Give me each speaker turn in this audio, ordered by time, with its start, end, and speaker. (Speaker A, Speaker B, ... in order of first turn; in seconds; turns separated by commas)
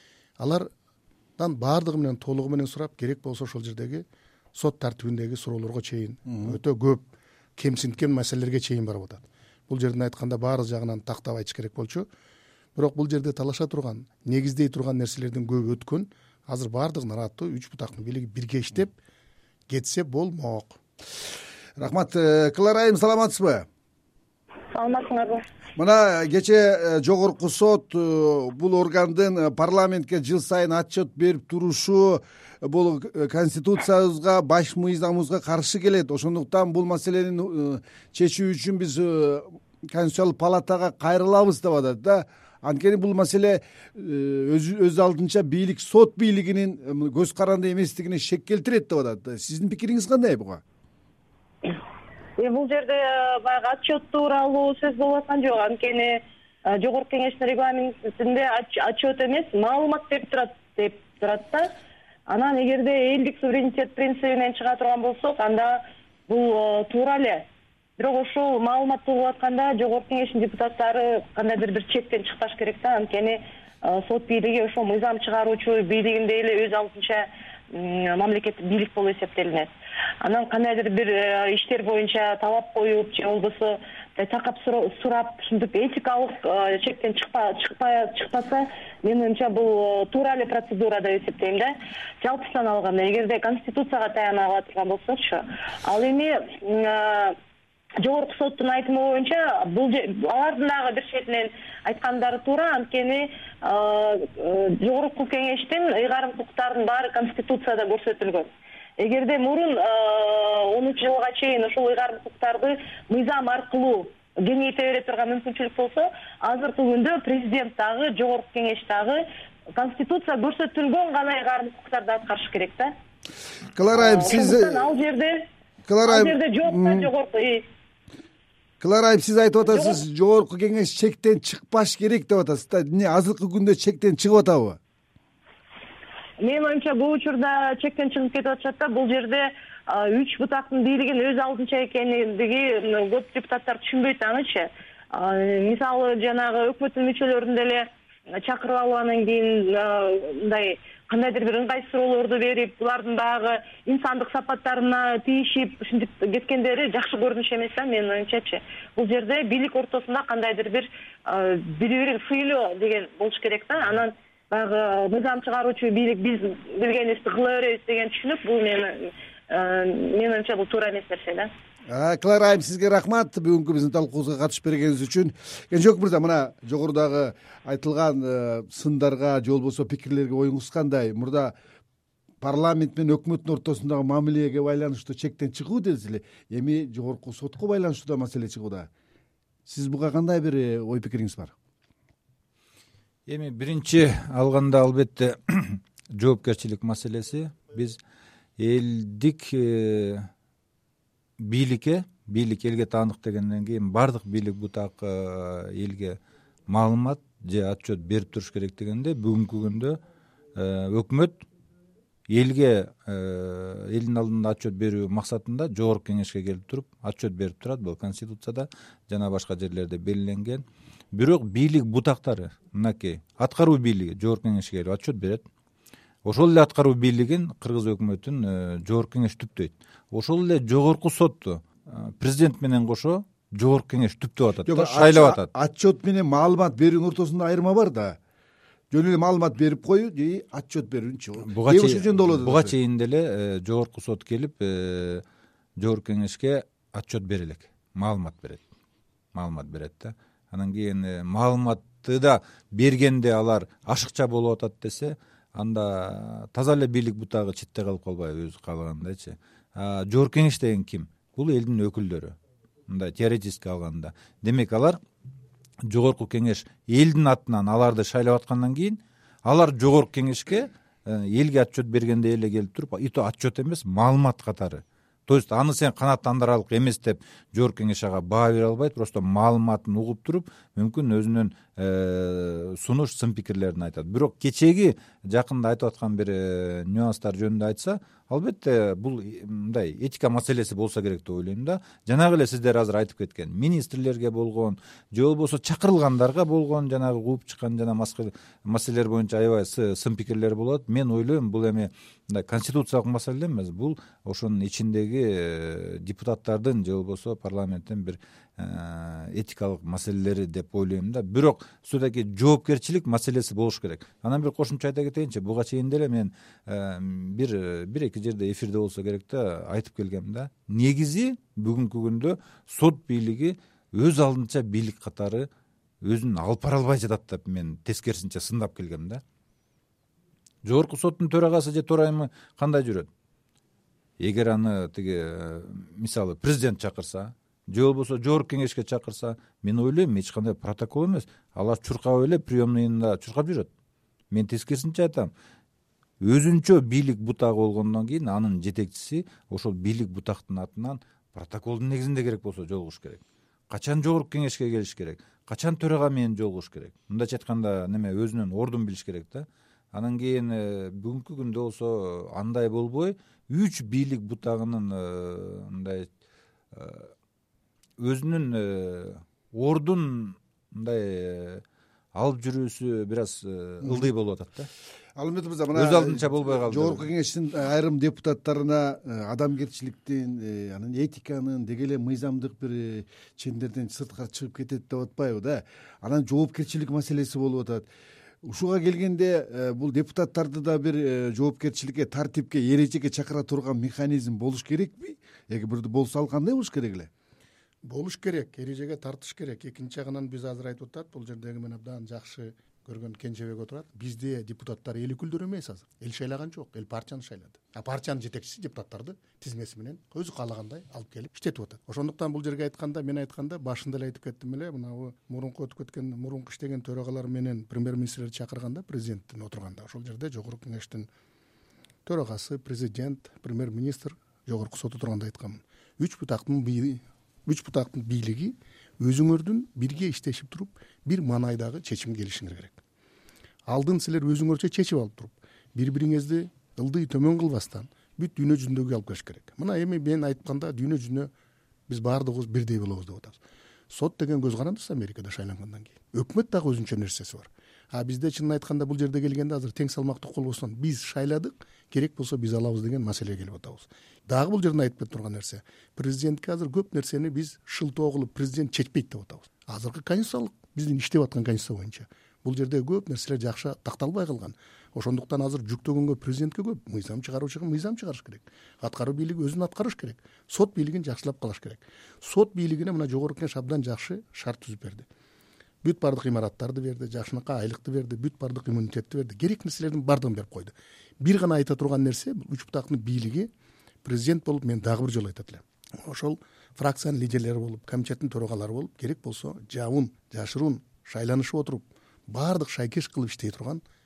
Speaker A: 0.4-0.7, Speaker A: 1.4-7.0, Speaker A: 7.6-12.1, Speaker A: 12.8-18.9, Speaker A: 19.7-20.8, Speaker B: 21.8-23.6, Speaker C: 24.7-25.4, Speaker B: 25.8-50.6, Speaker C: 52.4-61.7, Speaker C: 62.3-67.5, Speaker C: 68.0-79.7, Speaker C: 80.2-97.4, Speaker C: 98.0-119.2, Speaker C: 119.8-122.9, Speaker B: 123.7-124.9, Speaker C: 123.9-125.4, Speaker B: 125.9-127.1, Speaker C: 126.0-127.7, Speaker B: 128.8-134.8, Speaker C: 129.7-130.0, Speaker C: 136.4-171.5, Speaker B: 171.9-181.5, Speaker B: 182.4-188.9, Speaker B: 189.7-191.5, Speaker D: 193.2-198.0, Speaker D: 198.6-200.3, Speaker D: 201.4-206.2, Speaker D: 206.7-210.0, Speaker D: 210.5-211.4, Speaker D: 212.3-225.4, Speaker D: 226.2-235.5, Speaker B: 234.7-238.2, Speaker B: 238.9-242.7, Speaker D: 241.5-245.2, Speaker D: 245.8-248.6, Speaker D: 249.3-262.4, Speaker D: 262.9-265.0, Speaker D: 265.9-325.5, Speaker D: 326.0-329.2, Speaker D: 330.6-333.1, Speaker D: 334.2-343.7, Speaker D: 344.3-345.3, Speaker D: 346.2-366.1, Speaker D: 366.7-367.1, Speaker D: 368.0-371.6, Speaker D: 372.1-374.7, Speaker B: 375.1-387.9, Speaker D: 375.7-377.1, Speaker B: 388.4-397.1, Speaker A: 397.8-421.1, Speaker A: 422.1-432.8, Speaker A: 433.7-441.3, Speaker A: 441.9-443.4, Speaker A: 443.9-475.1, Speaker A: 475.8-483.5, Speaker A: 484.0-493.8